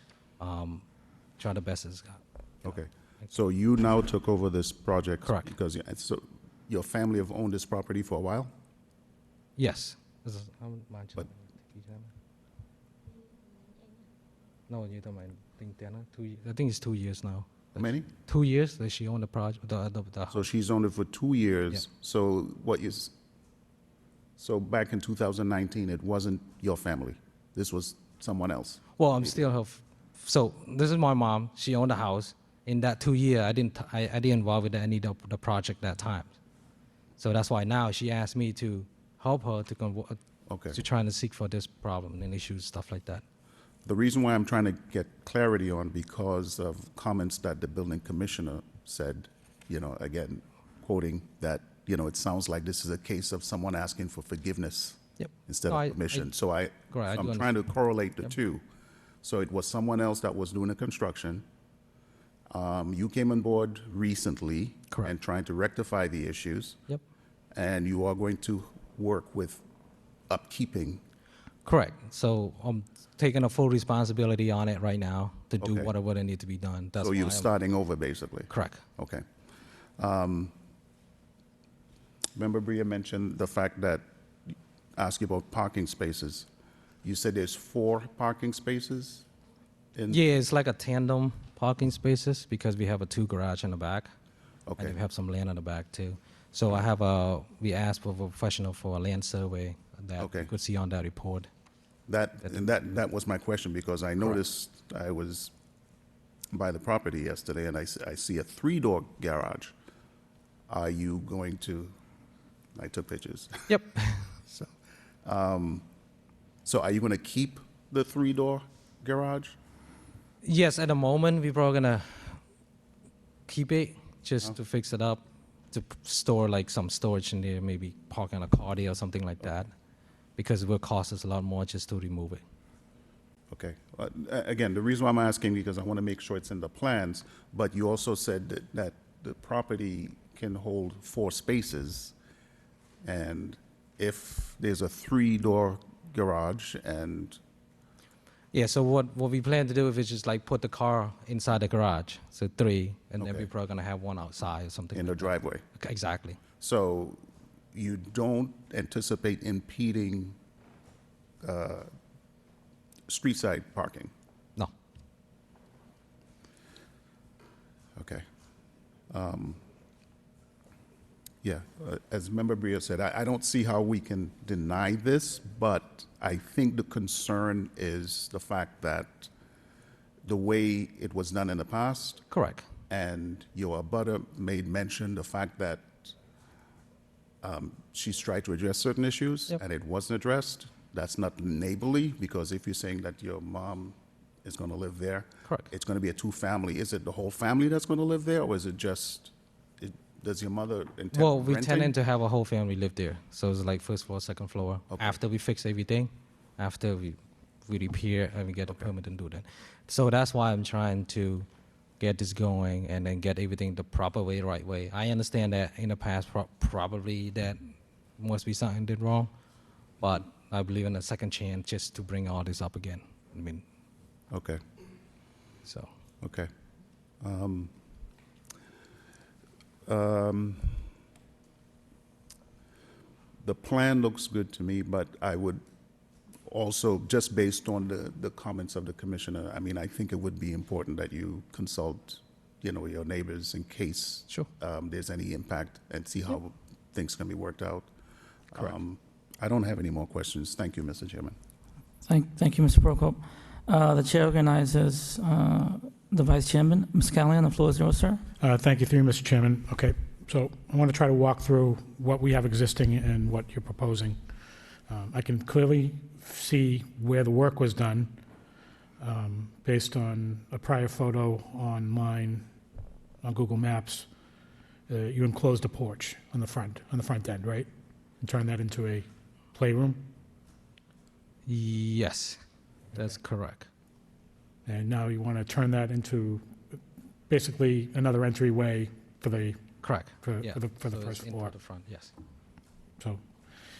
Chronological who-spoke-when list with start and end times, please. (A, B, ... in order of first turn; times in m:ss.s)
0:00.4-0:00.8 A
0:01.4-0:02.2 A
0:02.6-0:08.5 B
0:09.6-0:12.1 A
0:14.7-0:20.4 A
0:17.8-0:18.1 B
0:20.3-0:23.1 B
0:24.4-0:28.8 B
0:29.0-0:36.3 A
0:37.2-0:40.2 A
0:40.5-0:40.8 B
0:40.7-0:43.2 A
0:43.8-0:58.6 B
0:55.2-0:56.3 A
0:56.9-0:57.5 A
0:59.2-1:01.4 B
1:02.5-1:06.8 B
1:07.5-1:09.6 B
1:10.3-1:11.0 B
1:11.6-1:17.5 A
1:15.6-1:15.9 B
1:17.0-1:19.2 B
1:18.5-1:18.8 A
1:20.0-1:20.5 B
1:22.4-1:26.5 B
1:27.0-1:29.3 B
1:30.0-1:30.2 B
1:30.1-1:34.1 A
1:34.7-1:35.0 B
1:34.8-1:41.5 A
1:40.2-1:40.5 B
1:42.1-1:45.5 B
1:46.5-1:49.7 B
1:50.7-1:51.9 B
1:52.8-1:53.7 B
1:53.7-1:54.6 A
1:55.2-1:55.8 B
1:56.6-1:59.6 B
2:00.4-2:02.4 A
2:03.5-2:09.7 A
2:10.4-2:12.4 A
2:13.5-2:22.2 B
2:23.0-2:27.4 B
2:28.5-2:36.4 A
2:33.2-2:33.5 B
2:34.9-2:35.6 B
2:36.6-2:40.4 B
2:41.4-2:41.9 B
2:43.1-2:44.1 B
2:48.0-2:48.2 B
2:49.1-2:49.6 B
2:51.4-2:59.3 B
3:00.2-3:02.2 B
3:02.3-3:02.7 A
3:02.9-3:06.1 B
3:07.4-3:22.0 B
3:21.1-3:31.5 A
3:32.0-3:39.3 A
3:40.0-3:43.6 A
3:44.3-3:44.6 B
3:45.6-3:45.9 A
3:46.2-3:46.5 B
3:47.2-3:47.7 B
3:49.9-3:50.9 B
3:53.4-3:55.6 B
3:56.5-4:07.9 B
4:08.5-4:11.4 B
4:12.1-4:18.2 C
4:18.4-4:24.2 D
4:24.9-4:28.1 D
4:29.0-4:32.4 D
4:33.2-4:34.1 D
4:34.9-4:37.7 D
4:38.2-4:40.1 D
4:41.5-4:42.4 A
4:42.9-4:43.7 A
4:44.7-4:46.5 D
4:47.3-4:49.6 D
4:49.8-4:52.1 A
4:50.2-4:51.5 D